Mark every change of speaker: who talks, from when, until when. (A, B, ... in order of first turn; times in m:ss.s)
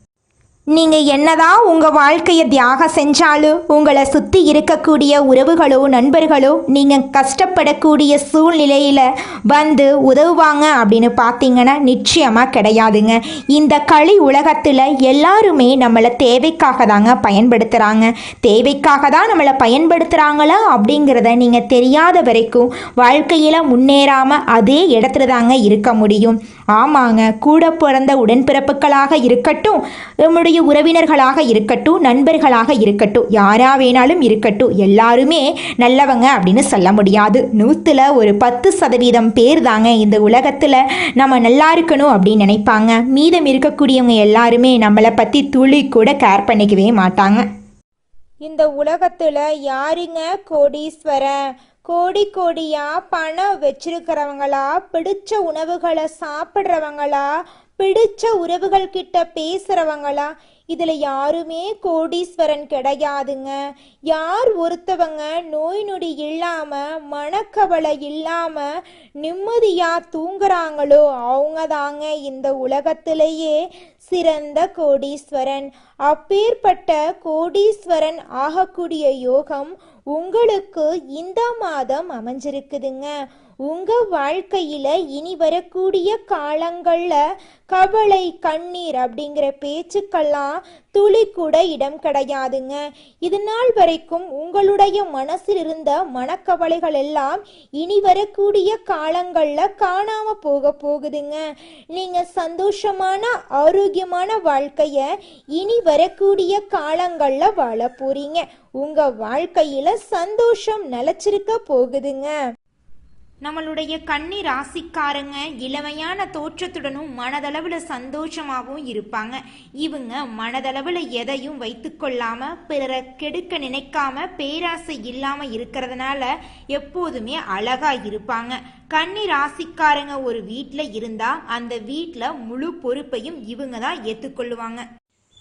0:00.7-0:47.4 A
0:48.4-0:57.3 A
0:57.8-1:03.6 A
1:04.1-1:08.7 A
1:09.2-1:13.6 A
1:14.1-1:23.1 A
1:23.6-1:27.2 A
1:27.7-1:41.4 A
1:41.9-1:52.3 A
1:53.4-2:14.8 A